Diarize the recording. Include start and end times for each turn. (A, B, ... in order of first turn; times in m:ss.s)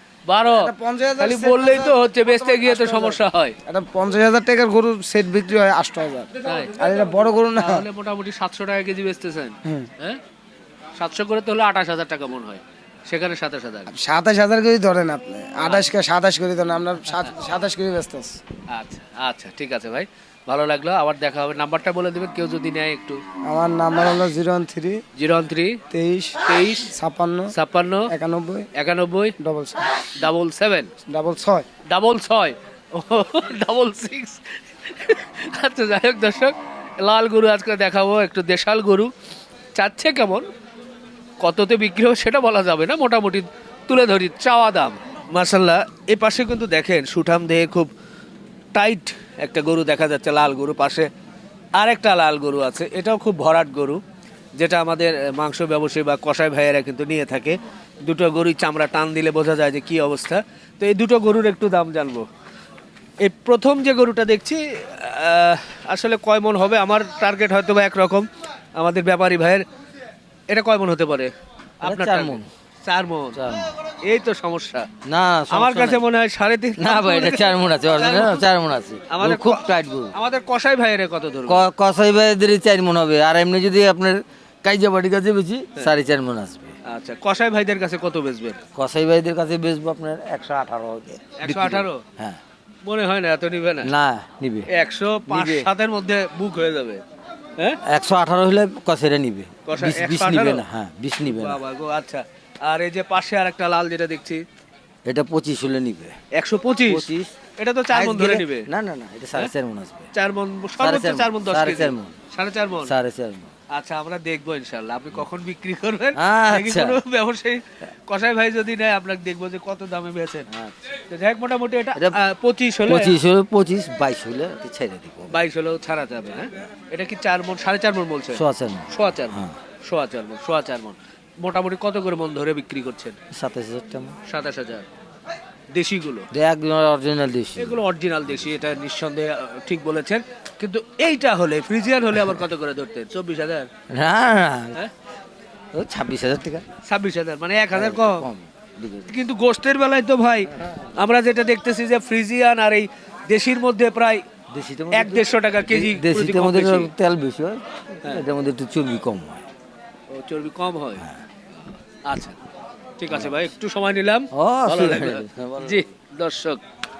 0:00.3-0:03.5 A
0:00.5-0:03.2 B
0:03.7-0:07.8 B
0:06.4-0:06.8 A
0:07.6-0:10.2 A
0:11.0-0:13.9 A
0:13.9-0:18.4 B
0:18.7-0:23.2 A
0:23.5-0:25.0 B
0:25.2-0:25.8 A
0:25.9-0:27.5 B
0:26.4-0:26.9 A
0:27.5-0:28.1 A
0:28.1-0:28.7 B
0:28.7-0:29.3 A
0:29.4-0:30.0 B
0:30.2-0:30.9 A
0:31.1-0:31.6 B
0:31.9-0:39.1 A
0:39.7-0:40.4 A
0:41.4-0:47.9 A
0:48.7-0:51.1 A
0:51.8-0:54.0 A
0:54.6-1:02.2 A
1:03.2-1:09.6 A
1:10.5-1:13.4 A
1:11.8-1:12.5 C
1:13.3-1:13.7 C
1:14.0-1:14.9 A
1:15.0-1:16.0 C
1:15.5-1:18.4 A
1:16.8-1:20.1 C
1:19.1-1:21.6 A
1:21.5-1:26.7 C
1:26.8-1:28.6 A
1:28.7-1:32.4 C
1:31.4-1:32.0 A
1:32.8-1:33.9 A
1:33.8-1:34.7 C
1:34.7-1:37.0 A
1:35.3-1:35.7 C
1:37.8-1:41.6 C
1:39.7-1:40.6 A
1:41.2-1:44.4 A
1:45.0-1:46.1 C
1:46.3-1:47.0 A
1:46.9-1:47.3 C
1:47.6-1:48.6 A
1:47.9-1:50.1 C
1:50.1-1:52.9 A
1:50.8-1:52.1 C
1:52.8-1:53.5 C
1:53.7-2:00.5 A
1:56.2-1:57.0 C
2:00.5-2:00.7 C
2:01.1-2:03.2 A
2:02.9-2:05.4 C
2:05.3-2:09.4 A
2:08.4-2:09.6 C
2:09.9-2:13.2 A
2:13.3-2:14.1 C
2:14.3-2:14.8 A
2:15.7-2:16.2 A
2:16.3-2:17.8 C
2:17.6-2:23.7 A
2:23.9-2:24.8 C
2:25.7-2:26.6 C
2:26.9-2:28.2 A
2:27.7-2:29.1 C
2:29.1-2:34.2 A
2:34.5-2:39.4 C
2:34.9-2:36.9 A
2:40.1-2:41.0 A
2:42.1-2:42.4 A
2:43.0-2:46.6 A
2:43.1-2:43.4 C
2:44.3-2:45.8 C